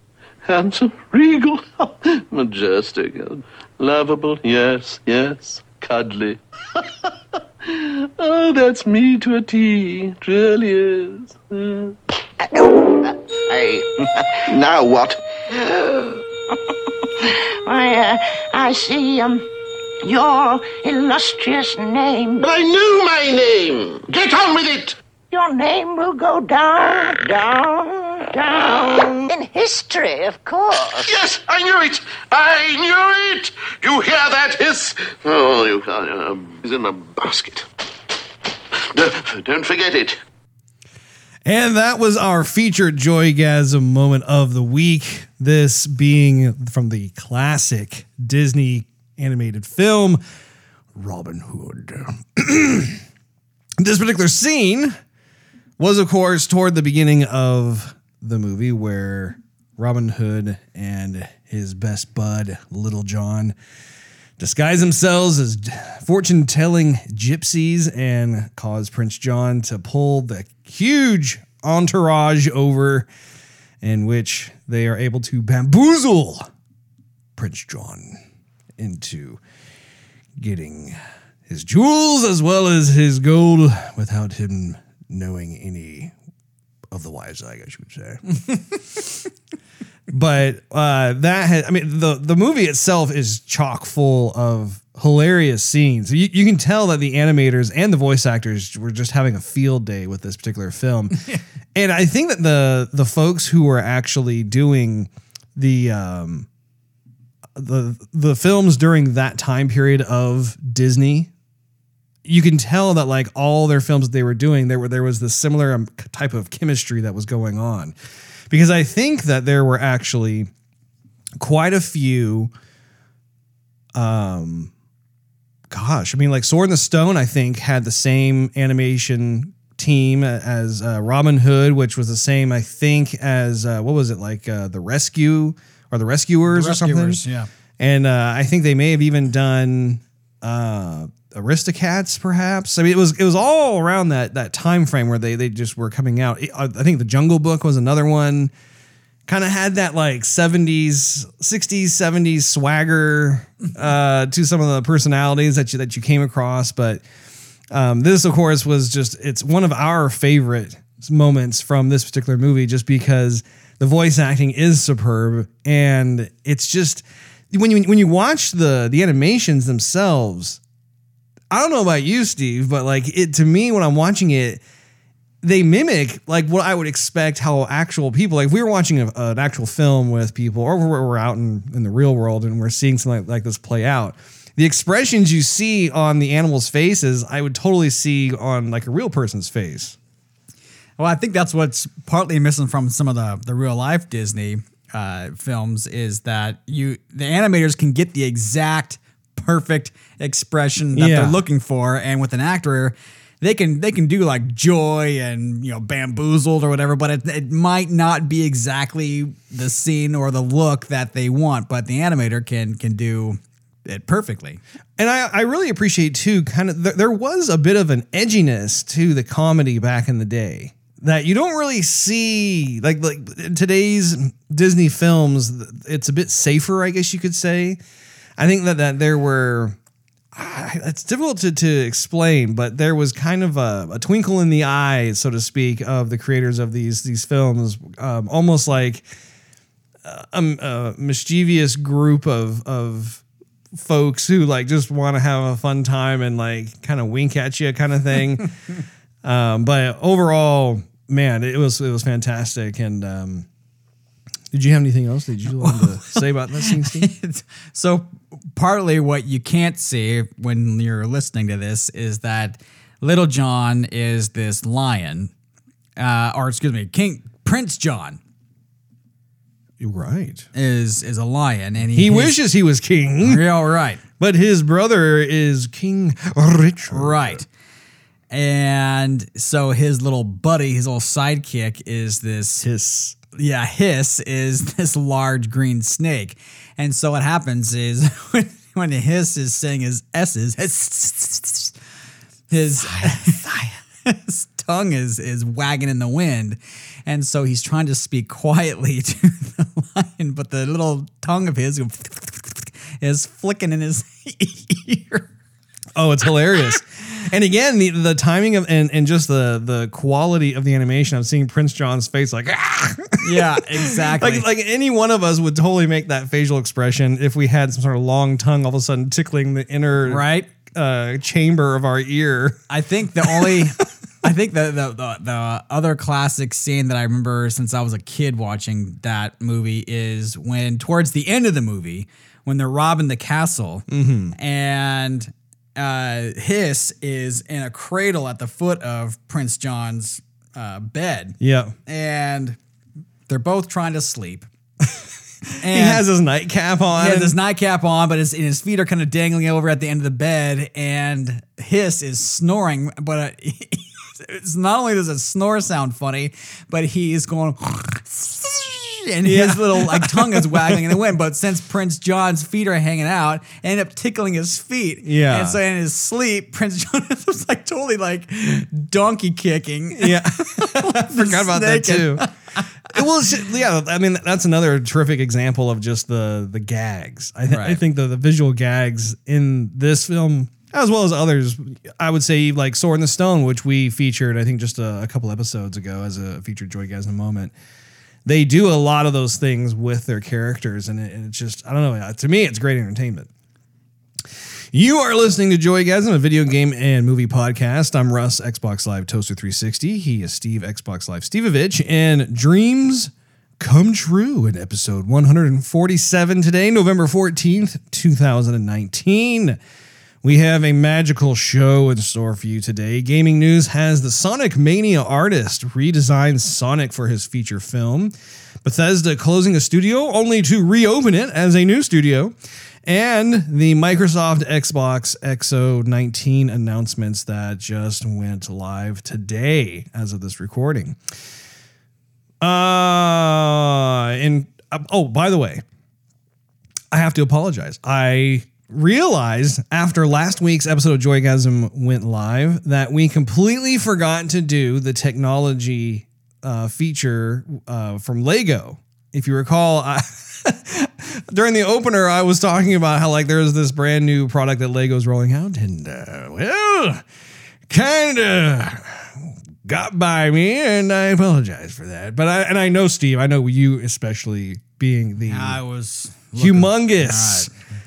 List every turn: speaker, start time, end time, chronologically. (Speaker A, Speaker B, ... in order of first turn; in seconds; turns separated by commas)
Speaker A: 0.5-7.1, Speaker A: 7.6-12.0, Speaker B: 12.4-14.3, Speaker A: 14.3-15.2, Speaker B: 17.0-19.5, Speaker B: 20.0-22.5, Speaker A: 22.4-25.0, Speaker B: 25.3-31.2, Speaker A: 31.0-37.7, Speaker A: 38.8-40.2, Speaker C: 41.5-50.2, Speaker C: 51.0-53.0, Speaker C: 53.8-55.0, Speaker C: 55.8-63.5, Speaker C: 64.4-73.1, Speaker C: 73.8-76.5, Speaker C: 77.4-78.2, Speaker C: 78.8-79.4, Speaker C: 80.4-86.1, Speaker C: 86.9-88.2, Speaker C: 90.1-106.5, Speaker C: 107.6-111.3, Speaker C: 112.2-118.0, Speaker C: 118.5-120.5, Speaker C: 121.4-122.5, Speaker C: 124.0-124.7, Speaker C: 125.7-137.2, Speaker D: 136.5-137.5, Speaker C: 137.8-148.5, Speaker C: 149.3-157.0, Speaker C: 157.7-170.6, Speaker C: 171.5-174.6, Speaker C: 175.4-190.0, Speaker D: 191.0-214.6, Speaker C: 201.0-201.4, Speaker C: 215.0-227.8, Speaker C: 228.4-229.8, Speaker C: 230.3-239.1, Speaker C: 240.0-243.2, Speaker C: 243.7-248.5, Speaker C: 249.2-253.5, Speaker C: 254.5-257.1, Speaker D: 255.6-265.3, Speaker D: 266.0-268.2, Speaker C: 269.8-270.5, Speaker D: 270.6-272.4, Speaker C: 271.9-273.5, Speaker D: 273.2-274.0, Speaker C: 274.2-277.4, Speaker D: 276.9-277.5, Speaker D: 278.3-282.6, Speaker C: 282.6-283.2, Speaker D: 283.3-291.7, Speaker D: 292.5-305.3, Speaker C: 293.0-293.6, Speaker C: 305.9-322.6, Speaker D: 313.2-314.5, Speaker D: 320.1-320.5, Speaker D: 322.7-342.6, Speaker C: 323.2-323.7, Speaker C: 333.9-334.4, Speaker C: 341.4-341.7, Speaker D: 343.3-344.5, Speaker D: 345.6-346.1, Speaker C: 345.6-347.4, Speaker D: 347.0-372.6, Speaker C: 359.2-360.9, Speaker C: 365.1-365.6, Speaker C: 369.9-372.2, Speaker C: 372.9-387.5, Speaker D: 377.5-377.8, Speaker C: 388.2-393.3, Speaker C: 394.7-409.6, Speaker C: 410.2-418.1, Speaker C: 418.6-431.0, Speaker C: 432.4-435.6, Speaker C: 436.9-457.0, Speaker C: 457.7-465.6, Speaker D: 465.3-467.5, Speaker C: 466.4-467.5